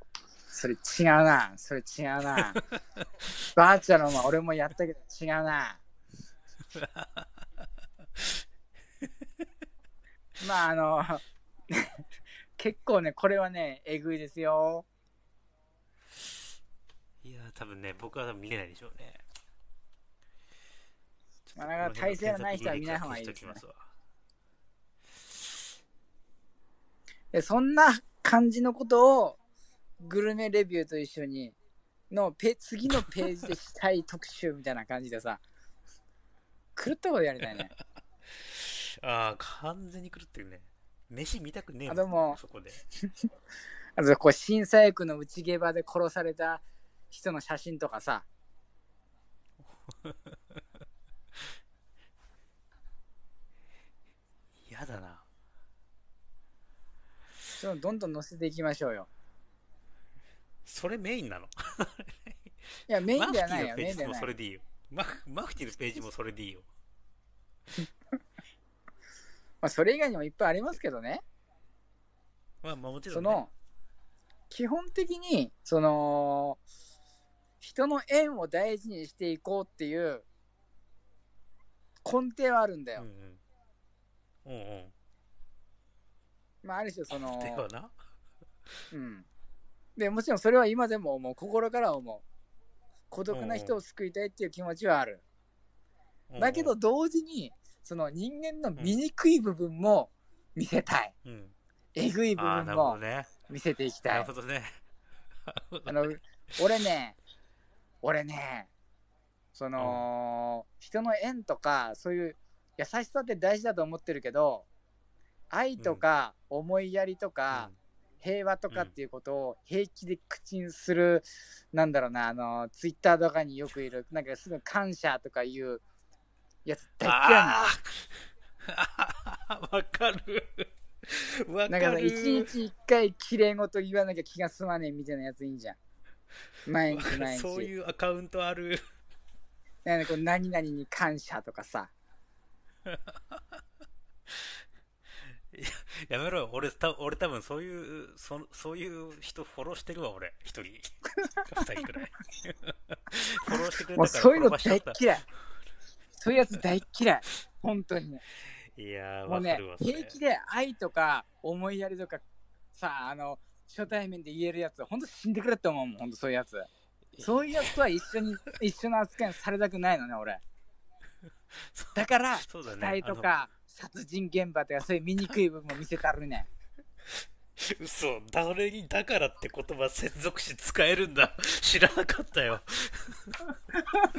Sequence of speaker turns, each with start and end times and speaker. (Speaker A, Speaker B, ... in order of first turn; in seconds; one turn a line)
Speaker A: 0.5-2.6
Speaker B: 2.4-2.6
Speaker A: 3.5-5.8
Speaker B: 6.7-7.3
Speaker A: 10.4-12.0
Speaker A: 12.6-14.8
Speaker B: 17.2-19.2
Speaker B: 21.5-23.9
Speaker A: 21.6-23.6
Speaker A: 27.3-29.4
Speaker A: 30.0-31.5
Speaker A: 32.1-35.4
Speaker B: 33.0-33.5
Speaker A: 36.8-37.7
Speaker B: 38.3-42.8
Speaker A: 41.9-42.4
Speaker A: 44.0-48.2
Speaker B: 49.6-50.6
Speaker B: 54.6-55.2
Speaker A: 57.6-59.1
Speaker B: 60.6-62.5
Speaker A: 62.9-64.3
Speaker B: 63.1-66.7
Speaker A: 69.6-71.2
Speaker B: 72.6-73.4
Speaker A: 73.1-73.5
Speaker A: 74.5-76.6
Speaker A: 77.6-80.2
Speaker A: 82.0-83.0
Speaker B: 83.0-83.4
Speaker B: 84.4-84.9
Speaker A: 86.6-87.6
Speaker B: 87.1-87.9
Speaker A: 88.9-89.2
Speaker A: 90.0-92.2
Speaker A: 93.1-95.2
Speaker B: 93.3-93.8
Speaker B: 96.3-96.7
Speaker A: 96.4-101.1
Speaker B: 101.2-101.5
Speaker A: 101.9-104.3
Speaker B: 102.3-103.3
Speaker B: 104.1-104.8
Speaker B: 105.5-106.2
Speaker A: 105.8-107.2
Speaker A: 108.0-108.7
Speaker A: 109.5-114.7
Speaker B: 109.8-110.1
Speaker A: 115.5-125.8
Speaker B: 115.8-116.0
Speaker B: 117.5-117.8
Speaker A: 126.6-127.6
Speaker B: 127.0-132.5
Speaker A: 131.7-135.8
Speaker A: 136.7-137.7
Speaker B: 136.8-138.8
Speaker A: 139.8-141.9
Speaker B: 142.8-143.4
Speaker B: 145.5-150.8
Speaker B: 151.4-155.0
Speaker A: 153.9-155.2
Speaker A: 156.2-158.2
Speaker B: 158.8-160.2
Speaker A: 159.3-162.2
Speaker A: 162.7-166.7
Speaker B: 167.1-167.8
Speaker A: 167.2-170.4
Speaker B: 171.5-173.3
Speaker A: 171.9-176.5
Speaker B: 177.6-183.4